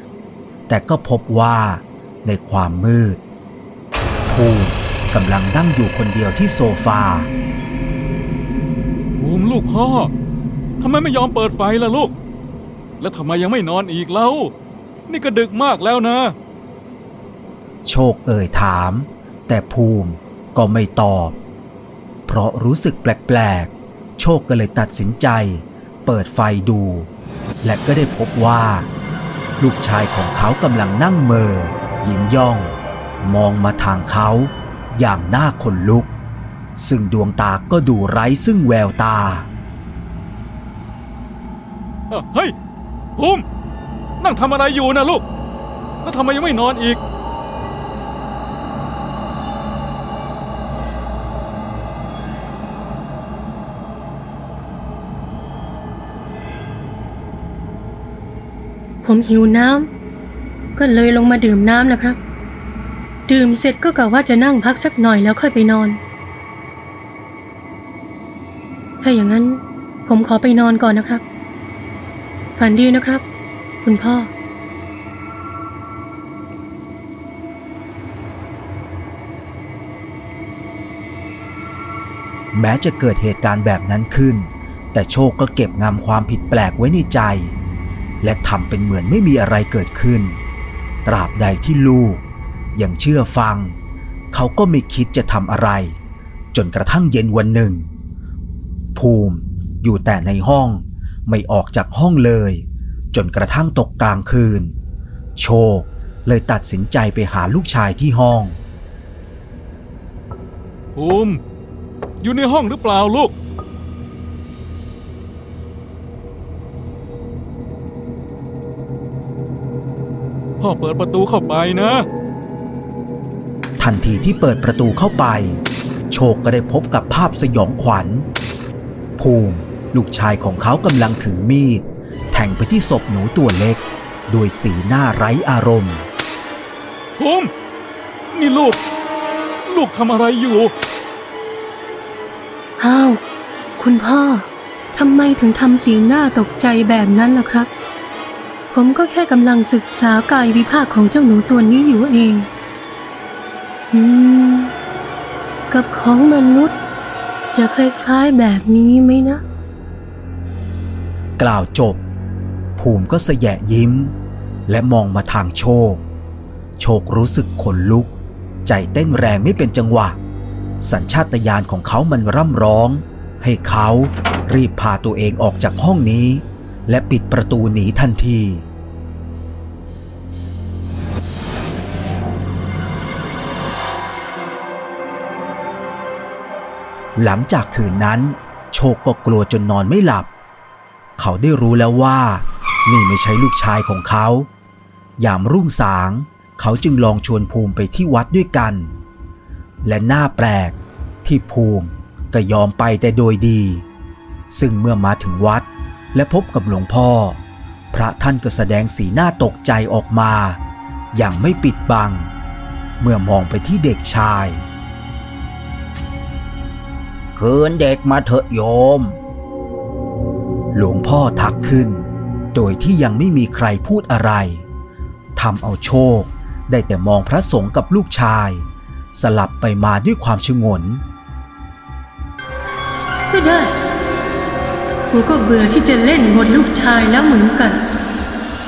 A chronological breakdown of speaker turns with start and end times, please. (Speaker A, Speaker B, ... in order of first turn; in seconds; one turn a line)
Speaker A: 0.7-3.2
Speaker A: 4.3-7.3
Speaker B: 9.2-10.1
Speaker B: 10.8-12.1
Speaker B: 13.0-14.5
Speaker B: 15.1-16.4
Speaker A: 17.8-21.4
Speaker A: 22.3-27.1
Speaker A: 27.6-28.9
Speaker A: 29.6-36.1
Speaker A: 36.8-39.5
Speaker B: 42.1-42.5
Speaker B: 43.2-43.4
Speaker B: 44.2-45.2
Speaker B: 46.0-47.0
Speaker C: 59.0-59.9
Speaker C: 60.8-62.2
Speaker C: 63.3-66.0
Speaker C: 69.0-71.2
Speaker C: 72.6-73.2
Speaker C: 73.8-74.3
Speaker A: 82.5-87.6
Speaker A: 88.2-90.4
Speaker A: 91.1-93.8
Speaker A: 94.3-96.0
Speaker A: 96.5-97.9
Speaker A: 98.9-104.8
Speaker A: 105.4-108.6
Speaker B: 111.0-111.4
Speaker B: 112.2-113.3
Speaker B: 120.6-122.0
Speaker A: 123.8-128.3
Speaker A: 129.2-136.1
Speaker B: 137.2-137.5
Speaker B: 138.3-138.8
Speaker B: 139.7-140.7
Speaker C: 142.8-143.2
Speaker C: 143.8-147.7
Speaker C: 148.7-152.5
Speaker C: 153.9-154.7
Speaker C: 155.7-156.7
Speaker C: 157.5-159.4
Speaker A: 161.4-162.0
Speaker A: 162.8-164.1
Speaker A: 164.7-166.1
Speaker A: 166.8-168.1
Speaker A: 168.7-170.2
Speaker A: 170.8-178.7
Speaker A: 187.2-190.3
Speaker A: 191.2-194.5
Speaker A: 195.2-199.0
Speaker A: 199.8-203.9
Speaker A: 204.5-207.4
Speaker A: 207.9-210.6
Speaker A: 211.1-212.3
Speaker A: 213.0-214.7
Speaker A: 217.3-219.2
Speaker A: 220.7-224.7
Speaker A: 225.3-231.0
Speaker C: 233.3-233.7
Speaker C: 235.1-237.8